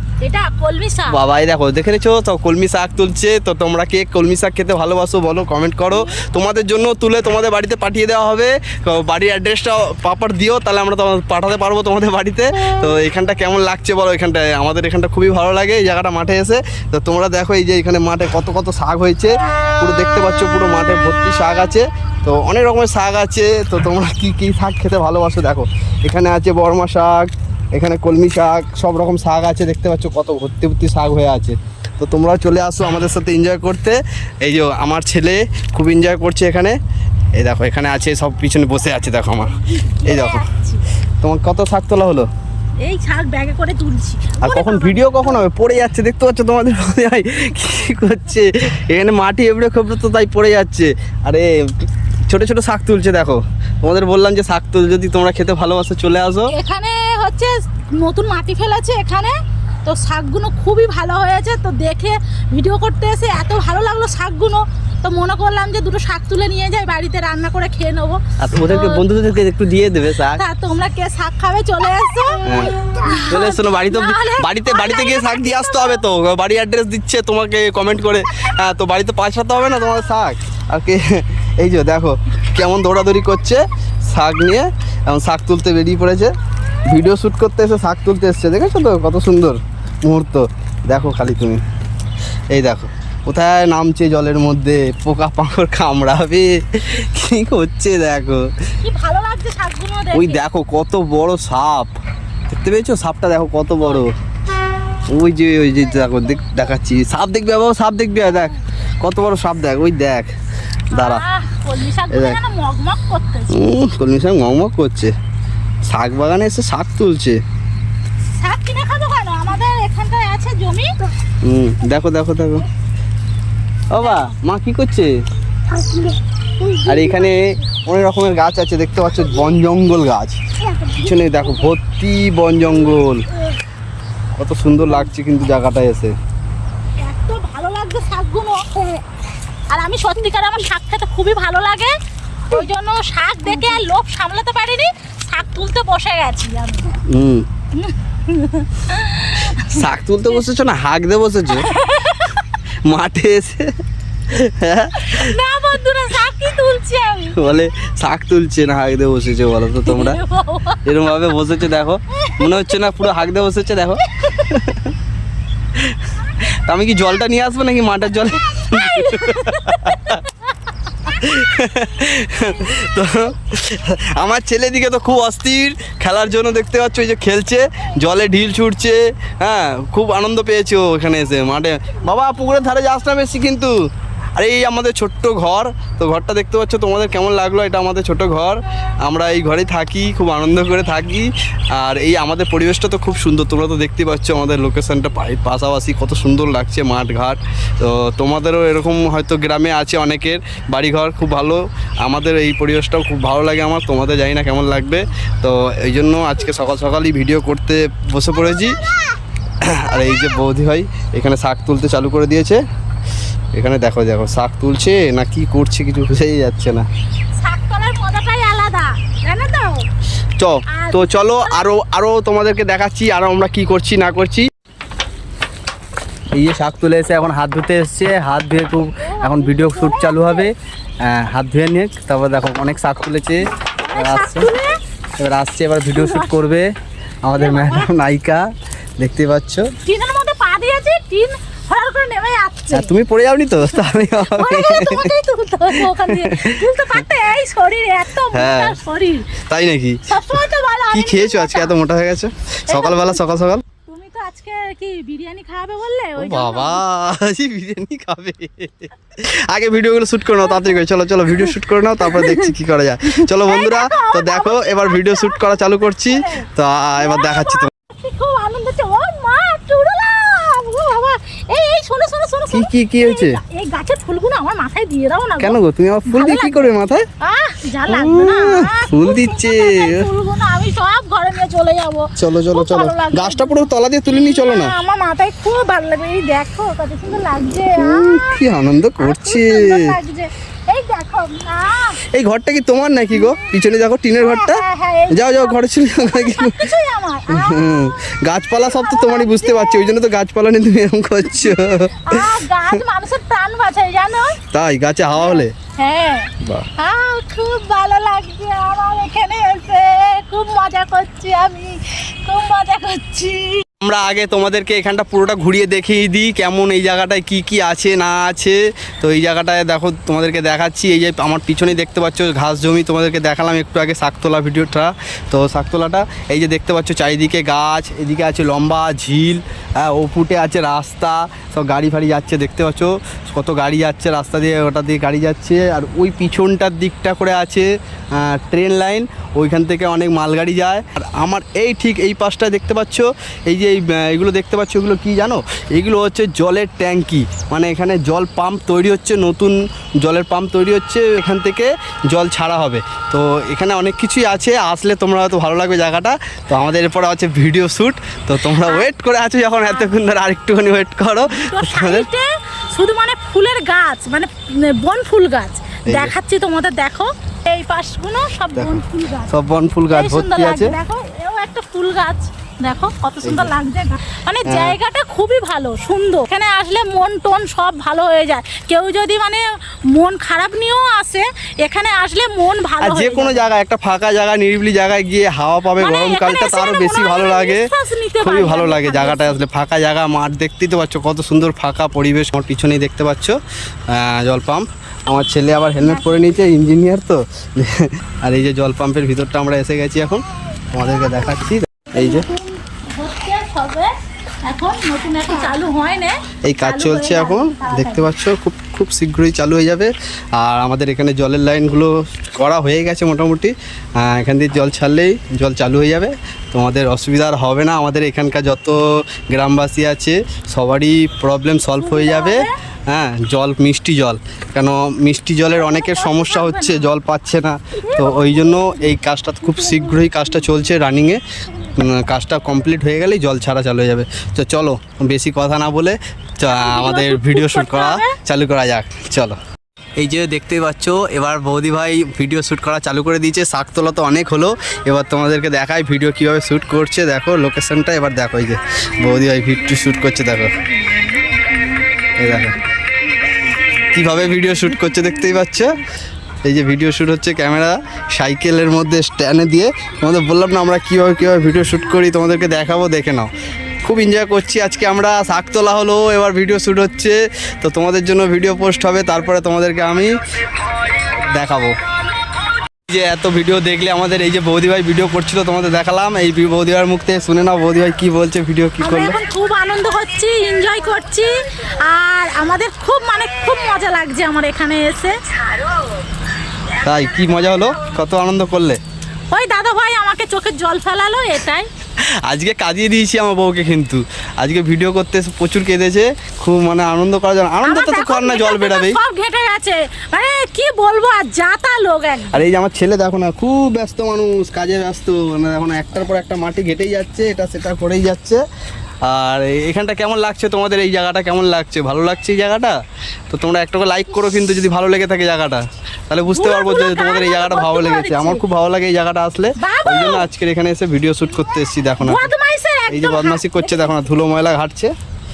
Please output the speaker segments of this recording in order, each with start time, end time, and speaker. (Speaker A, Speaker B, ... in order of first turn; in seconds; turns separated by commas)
Speaker A: 0.2-1.2, Speaker B: 1.1-36.8, Speaker B: 37.4-40.4, Speaker A: 39.7-40.8, Speaker B: 41.2-42.3, Speaker A: 42.8-45.6, Speaker B: 44.4-56.5, Speaker A: 56.5-69.0, Speaker B: 68.4-70.4, Speaker A: 70.3-76.0, Speaker B: 72.4-72.7, Speaker B: 73.3-86.3, Speaker B: 86.8-91.6, Speaker B: 92.5-98.5, Speaker A: 98.8-100.4, Speaker B: 100.1-101.9, Speaker B: 102.5-104.1, Speaker B: 105.1-110.3, Speaker B: 110.9-111.2, Speaker A: 110.9-113.6, Speaker B: 112.1-112.4, Speaker B: 113.5-115.1, Speaker B: 115.8-117.4, Speaker A: 118.4-120.9, Speaker B: 121.4-122.7, Speaker B: 123.9-125.1, Speaker A: 124.0-124.3, Speaker A: 126.6-127.3, Speaker B: 126.8-133.2, Speaker B: 134.3-136.1, Speaker A: 137.0-139.0, Speaker A: 139.7-141.9, Speaker A: 142.5-147.0, Speaker B: 147.1-147.4, Speaker A: 147.7-149.8, Speaker B: 149.6-151.7, Speaker A: 151.5-152.5, Speaker B: 152.8-153.7, Speaker B: 154.3-155.4, Speaker A: 155.0-157.4, Speaker B: 157.3-160.2, Speaker A: 159.8-160.8, Speaker B: 160.8-164.9, Speaker A: 162.2-162.6, Speaker B: 165.7-170.2, Speaker A: 168.5-170.5, Speaker B: 171.1-183.7, Speaker B: 184.4-208.8, Speaker B: 209.6-212.6, Speaker B: 213.5-216.9, Speaker A: 217.4-219.8, Speaker B: 220.4-224.5, Speaker A: 220.7-221.7, Speaker B: 226.3-234.5, Speaker A: 229.0-230.5, Speaker A: 233.8-234.7, Speaker B: 235.2-236.7, Speaker A: 235.9-236.3, Speaker B: 237.2-238.5, Speaker A: 237.3-237.9, Speaker B: 239.0-239.7, Speaker A: 239.8-242.9, Speaker B: 242.7-245.2, Speaker A: 243.7-249.3, Speaker B: 245.7-247.1, Speaker B: 248.3-248.8, Speaker B: 249.4-253.6, Speaker A: 250.1-251.8, Speaker A: 252.7-253.2, Speaker A: 253.8-256.8, Speaker B: 256.2-267.7, Speaker A: 260.5-260.7, Speaker A: 261.4-262.5, Speaker A: 263.1-265.5, Speaker A: 266.1-275.6, Speaker B: 272.5-273.4, Speaker B: 275.4-277.1, Speaker A: 276.1-288.4, Speaker B: 277.9-280.1, Speaker B: 282.2-284.7, Speaker B: 287.7-290.0, Speaker A: 289.0-292.0, Speaker B: 292.1-296.7, Speaker A: 293.1-293.5, Speaker A: 294.2-297.8, Speaker B: 297.3-302.8, Speaker A: 298.7-299.9, Speaker A: 301.4-304.4, Speaker B: 304.5-305.5, Speaker A: 305.1-313.6, Speaker B: 306.4-306.7, Speaker B: 313.8-362.1, Speaker A: 358.5-358.9, Speaker A: 361.3-369.4, Speaker B: 365.9-366.1, Speaker B: 368.5-370.8, Speaker A: 369.9-383.5, Speaker B: 373.2-373.5, Speaker B: 374.4-374.8, Speaker B: 382.8-387.7, Speaker A: 385.8-389.4, Speaker B: 388.2-393.4, Speaker B: 393.9-402.3, Speaker A: 395.8-396.2, Speaker A: 401.9-403.9, Speaker A: 404.4-408.1, Speaker B: 406.4-439.4, Speaker A: 421.8-422.5, Speaker A: 425.5-426.9, Speaker A: 427.8-428.8, Speaker A: 429.4-430.1, Speaker A: 436.5-438.1, Speaker B: 440.0-450.5, Speaker B: 452.2-452.6, Speaker B: 453.9-455.7, Speaker B: 456.4-463.3, Speaker B: 463.8-470.2, Speaker B: 471.0-471.7, Speaker B: 472.9-479.2, Speaker A: 478.8-485.1, Speaker B: 486.8-488.8, Speaker A: 489.3-491.7, Speaker B: 492.2-499.0, Speaker A: 497.6-502.4, Speaker B: 502.3-508.4, Speaker B: 509.0-512.8, Speaker B: 513.3-522.3, Speaker A: 516.3-518.4, Speaker A: 519.6-520.2, Speaker A: 522.0-523.9, Speaker B: 522.9-524.9